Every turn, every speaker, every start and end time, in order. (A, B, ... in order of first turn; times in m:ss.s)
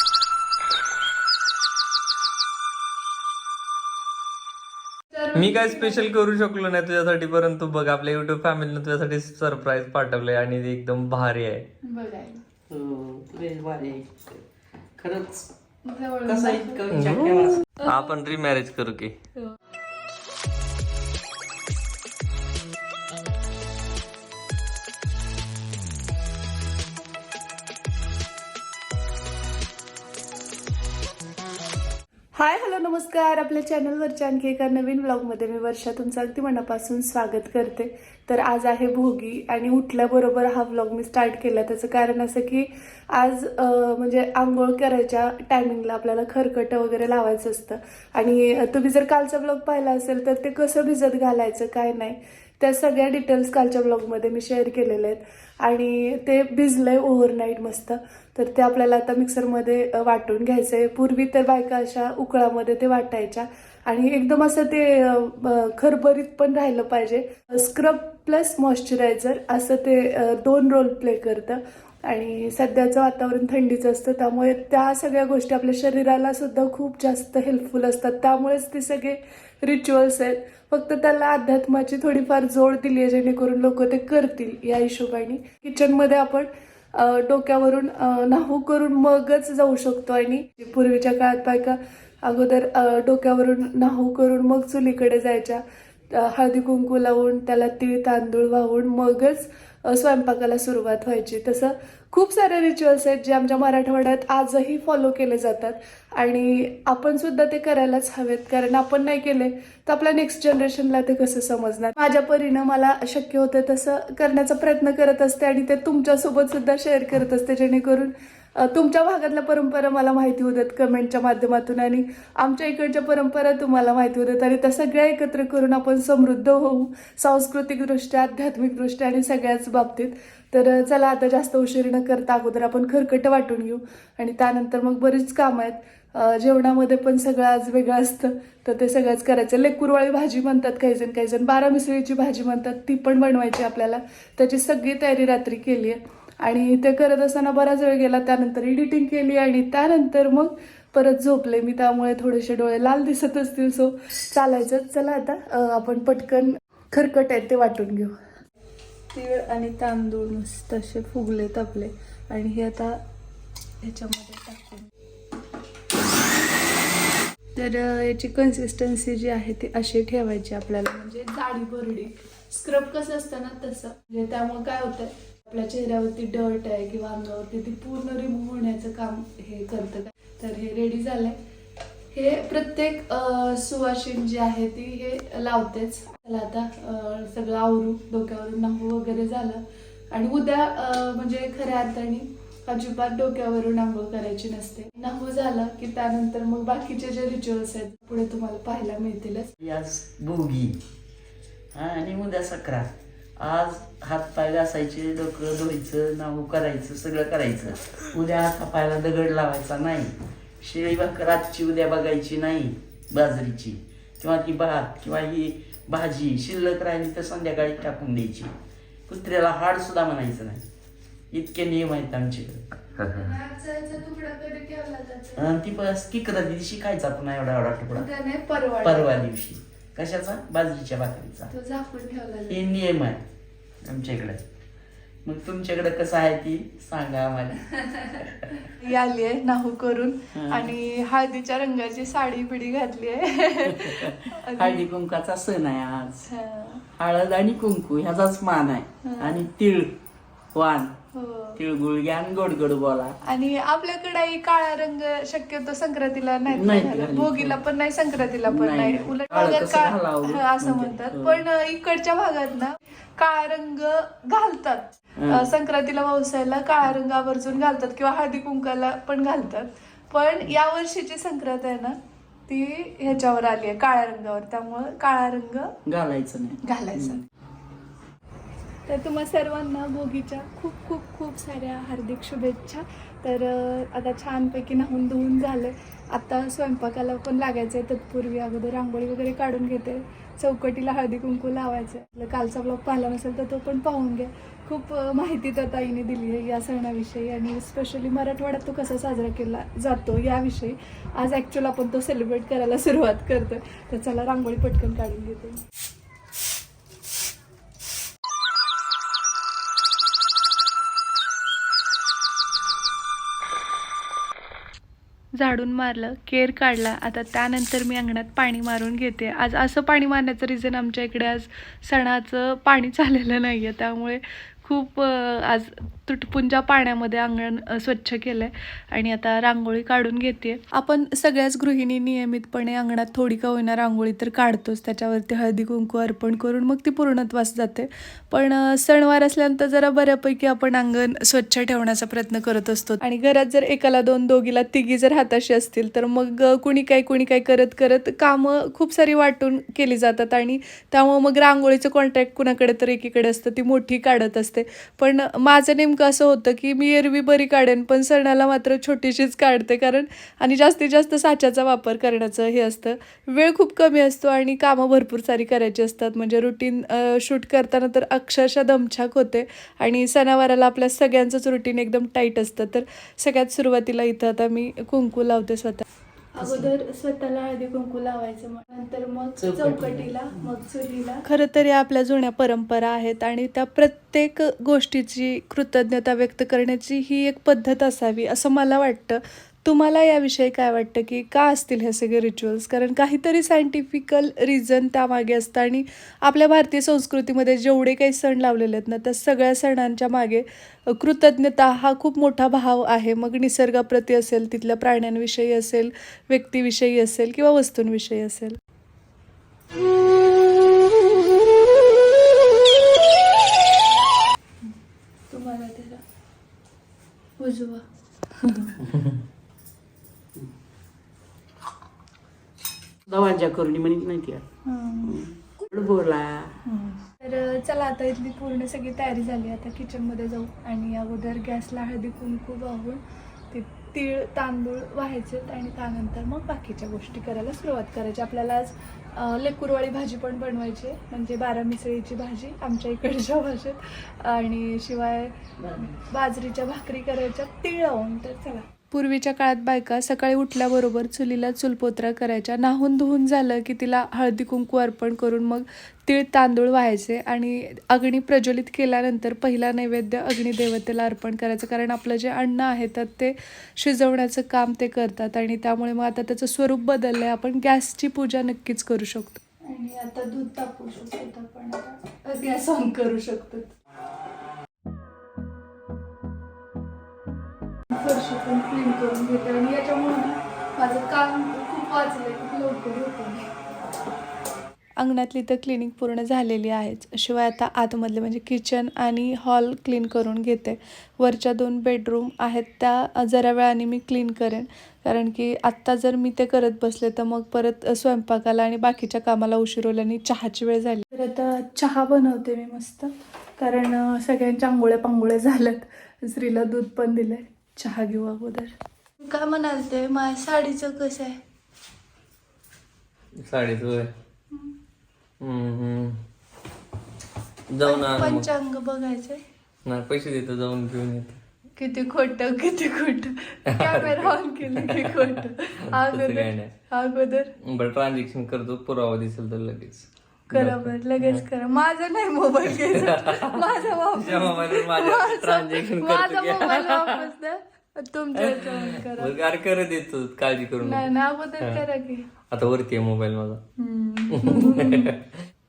0:05.1-0:06.1 A
0:05.3-0:11.6 B
0:11.8-0:12.4 A
0:12.7-0:14.4 C
0:15.0-0:15.5 C
0:15.8-0:16.8 A
0:16.2-0:17.7 C
0:16.9-0:19.1 B
0:17.8-0:18.1 A
0:32.3-2:38.1 A
2:39.1-2:43.0 A
2:43.8-2:44.9 A
2:47.5-3:01.4 A
3:02.1-3:19.5 A
3:19.6-3:20.8 C
3:21.7-3:38.5 C
3:39.1-3:40.6 C
3:41.3-3:42.6 C
3:43.0-3:43.3 B
3:43.0-3:45.5 A
3:45.4-3:48.1 C
3:47.9-3:49.3 A
3:48.8-3:51.5 C
3:51.5-3:52.6 A
3:52.5-3:53.2 C
3:53.8-3:54.4 C
3:55.2-3:58.6 C
3:57.8-4:04.8 A
4:00.3-4:00.7 C
4:03.6-4:06.3 C
4:06.3-4:06.8 A
4:07.0-4:10.0 C
4:09.0-4:09.5 A
4:10.5-4:10.9 C
4:11.1-4:11.6 A
4:11.6-4:13.2 C
4:13.2-4:35.7 A
4:16.5-4:17.6 C
4:18.4-4:21.4 C
4:25.2-4:25.5 C
4:35.8-4:37.2 C
4:36.6-4:37.2 A
4:38.8-5:05.6 A
5:15.4-6:48.6 A
6:16.4-6:16.7 C
6:19.4-6:20.5 C
6:55.3-6:56.0 A
6:57.4-6:58.8 A
7:03.1-7:04.4 C
7:04.6-7:05.7 A
7:05.0-7:06.6 C
7:06.6-7:53.7 A
7:25.6-7:26.0 C
7:57.9-8:03.5 A
8:05.0-8:31.4 A
8:33.4-8:34.1 B
8:35.4-8:36.2 B
8:37.7-8:38.5 B
8:37.8-8:39.4 A
8:39.8-8:41.4 B
8:41.8-8:47.5 A
8:43.7-8:46.7 B
8:47.6-8:51.4 B
8:50.5-8:59.3 A
8:52.7-8:57.3 B
8:58.3-9:01.8 B
9:00.8-9:02.3 A
9:02.5-9:03.6 B
9:03.8-9:05.1 A
9:04.3-9:05.3 B